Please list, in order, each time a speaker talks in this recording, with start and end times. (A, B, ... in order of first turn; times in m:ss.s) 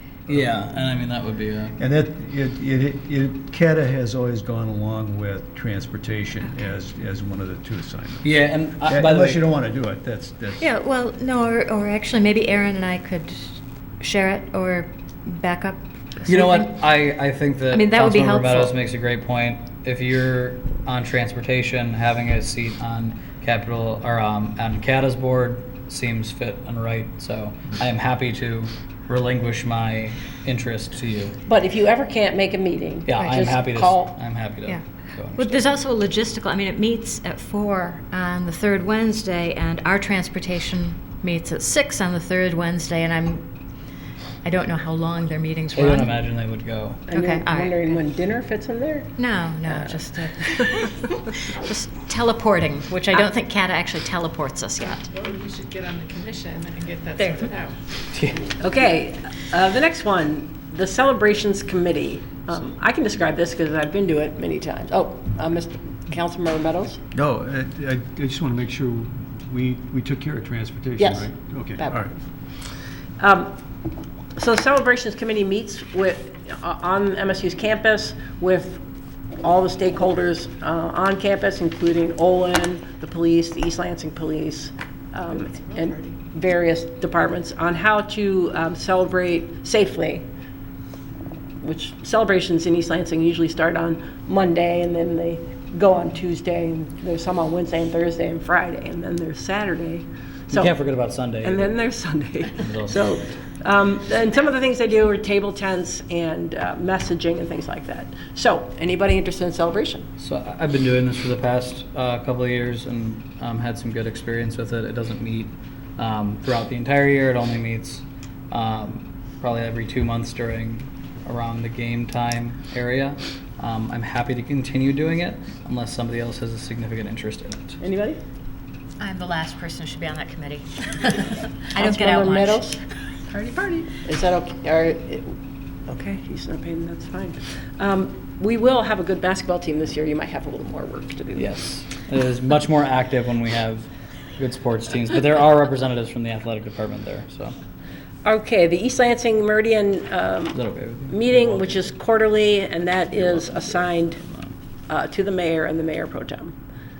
0:00.3-0:01.8 A
0:00.3-0:00.7 B
0:01.8-0:08.3 B
0:08.2-0:09.4 A
0:08.8-0:10.7 B
0:10.6-0:16.7 C
0:16.2-0:31.4 A
0:17.7-0:18.8 C
0:31.5-0:34.2 D
0:33.0-0:35.7 A
0:34.6-0:43.4 C
0:44.4-0:46.2 C
0:45.7-0:47.1 A
0:47.1-0:49.1 D
0:47.1-0:48.0 C
0:49.2-0:55.1 C
0:49.7-0:50.9 D
0:55.1-0:57.8 E
0:57.2-0:57.5 C
0:58.1-0:58.5 A
0:58.6-1:07.0 D
1:07.1-1:12.1 B
1:11.0-1:12.0 D
1:13.2-1:13.6 D
1:14.4-1:18.8 D
1:19.4-1:30.2 D
1:31.6-1:40.7 D
1:40.5-1:41.7 A
1:41.4-1:50.1 D
1:42.6-1:43.1 A
1:50.2-2:07.8 A
2:07.8-2:08.2 D
2:09.0-2:12.7 C
2:11.7-2:15.4 D
2:15.9-2:21.5 D
2:21.3-2:27.5 A
2:28.2-2:30.6 D
2:30.5-2:31.7 A
2:31.1-2:34.2 D
2:33.2-2:34.5 A
2:34.9-2:36.5 D